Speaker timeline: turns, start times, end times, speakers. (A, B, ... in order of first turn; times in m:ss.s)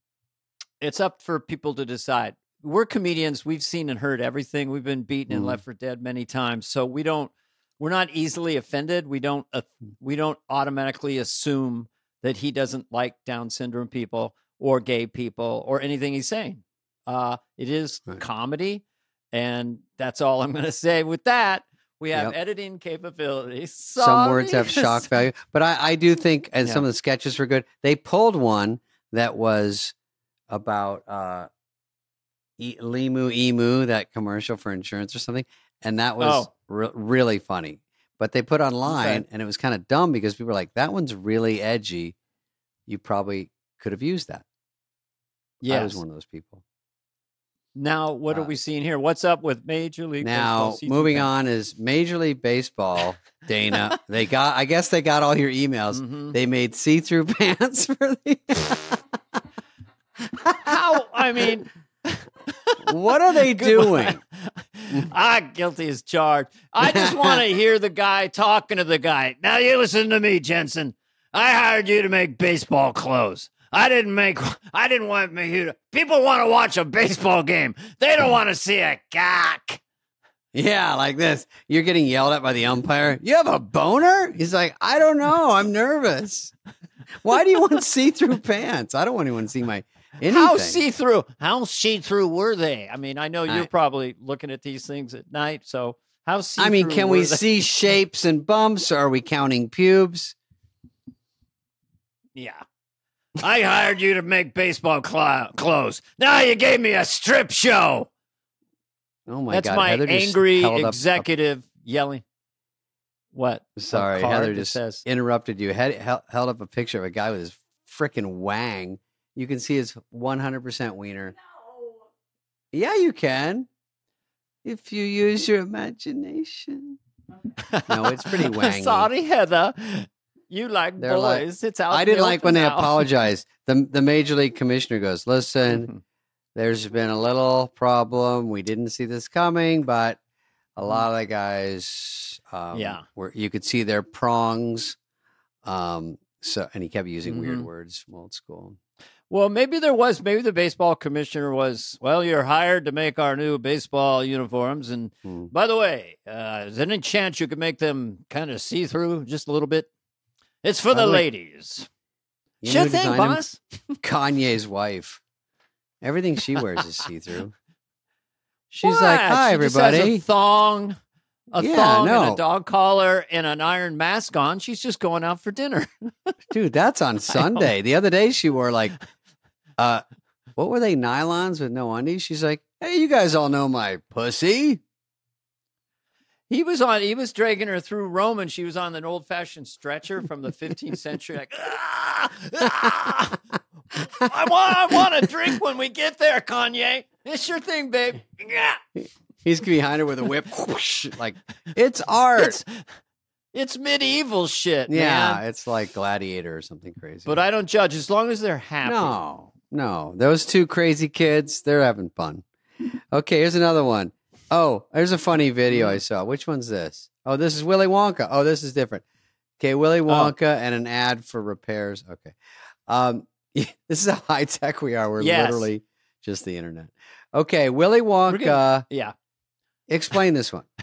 0:00.8-0:25.1 A
0:05.3-0:05.6 B
0:24.0-0:29.9 B
0:30.5-0:31.5 B
0:32.6-0:42.1 B
0:36.2-0:36.5 A
0:38.8-0:39.2 A
0:42.9-0:44.4 B
0:45.6-0:46.6 B
0:45.6-0:46.0 A
0:47.8-0:51.3 A
0:50.2-0:59.0 B
0:55.9-0:56.3 A
1:00.6-1:02.8 A
1:02.8-1:04.2 B
1:03.5-1:19.8 A
1:06.8-1:07.4 B
1:20.5-1:26.5 B
1:27.2-1:30.8 B
1:30.3-1:37.4 A
1:36.6-1:40.3 B
1:42.3-1:42.6 A
1:43.4-1:48.1 A
1:49.3-1:51.2 B
1:49.5-1:52.2 A
1:53.3-1:55.0 A
1:53.8-2:01.3 B
2:02.7-2:03.7 B
2:04.6-2:07.0 B
2:07.6-2:13.1 A
2:07.9-2:09.1 B
2:11.0-2:15.9 B
2:15.7-2:16.0 A
2:16.5-2:20.2 B
2:20.8-2:25.0 B
2:22.7-2:23.0 A
2:25.6-2:28.8 B
2:27.2-2:27.7 A
2:29.3-2:39.9 A
2:35.2-2:35.5 B
2:40.6-2:41.9 A
2:40.9-2:41.2 B
2:42.6-2:43.4 B
2:42.6-2:43.7 A
2:44.0-2:45.2 B
2:46.0-2:47.5 B
2:48.7-2:50.2 B
2:48.8-2:51.0 A
2:51.5-2:55.9 A
2:51.6-2:52.4 B
2:56.5-2:59.0 B
2:57.3-2:57.7 A
2:59.8-3:00.0 B
3:00.6-3:04.8 B
3:06.5-3:13.4 A
3:14.0-3:18.8 A
3:19.4-3:22.6 B
3:22.4-3:22.8 A
3:23.5-3:25.4 A
3:24.9-3:27.4 B
3:27.3-3:29.2 A
3:28.8-3:32.4 B
3:33.1-3:39.0 B
3:35.7-3:36.0 A
3:39.6-3:42.3 B
3:40.1-3:40.3 A
3:42.9-3:48.8 B
3:45.2-3:45.7 A
3:48.3-3:49.1 A
3:49.9-3:50.6 B